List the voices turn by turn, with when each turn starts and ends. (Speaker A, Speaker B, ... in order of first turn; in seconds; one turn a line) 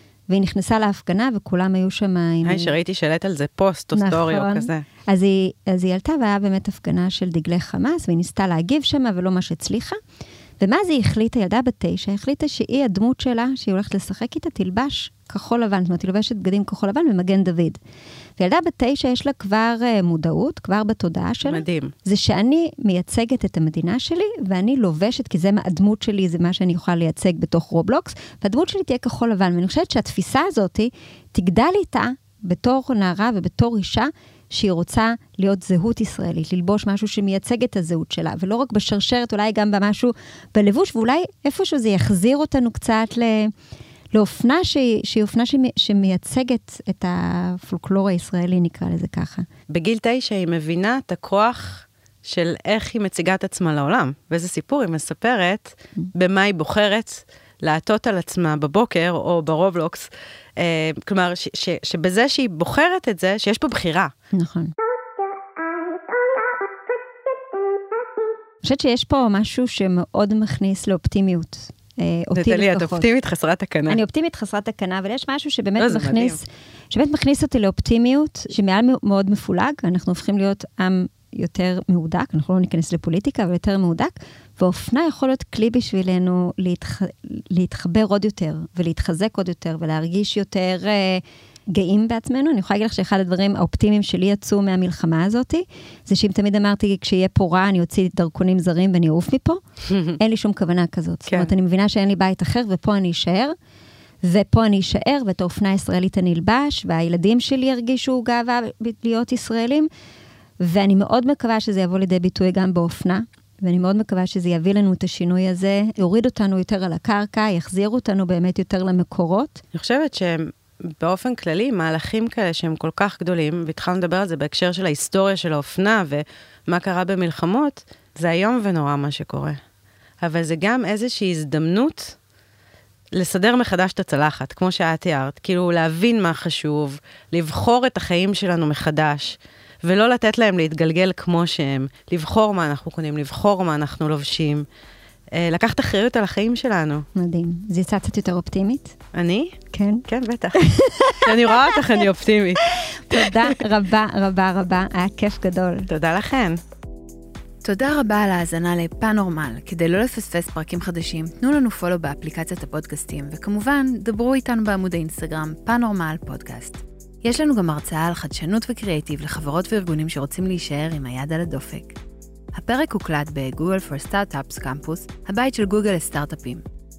Speaker A: 0.3-2.8
Speaker B: 2.4-4.8
Speaker A: 3.9-10.0
Speaker A: 10.6-17.8
Speaker A: 18.4-43.5
Speaker B: 21.4-21.9
Speaker A: 44.1-49.5
Speaker B: 49.7-64.1
Speaker A: 64.3-64.7
Speaker A: 68.6-73.1
Speaker B: 72.4-74.0
Speaker A: 73.9-99.6
Speaker B: 75.8-76.4
Speaker B: 99.9-100.2
Speaker A: 100.2-103.5
Speaker A: 104.2-109.9
Speaker A: 110.6-119.6
Speaker B: 119.7-129.6
Speaker B: 130.2-132.2
Speaker B: 133.1-144.7
Speaker B: 145.3-147.1
Speaker A: 147.1-148.9
Speaker B: 149.1-153.6
Speaker A: 149.7-152.1
Speaker A: 152.6-155.9
Speaker B: 155.9-156.6
Speaker C: 157.6-172.0
Speaker C: 172.5-176.6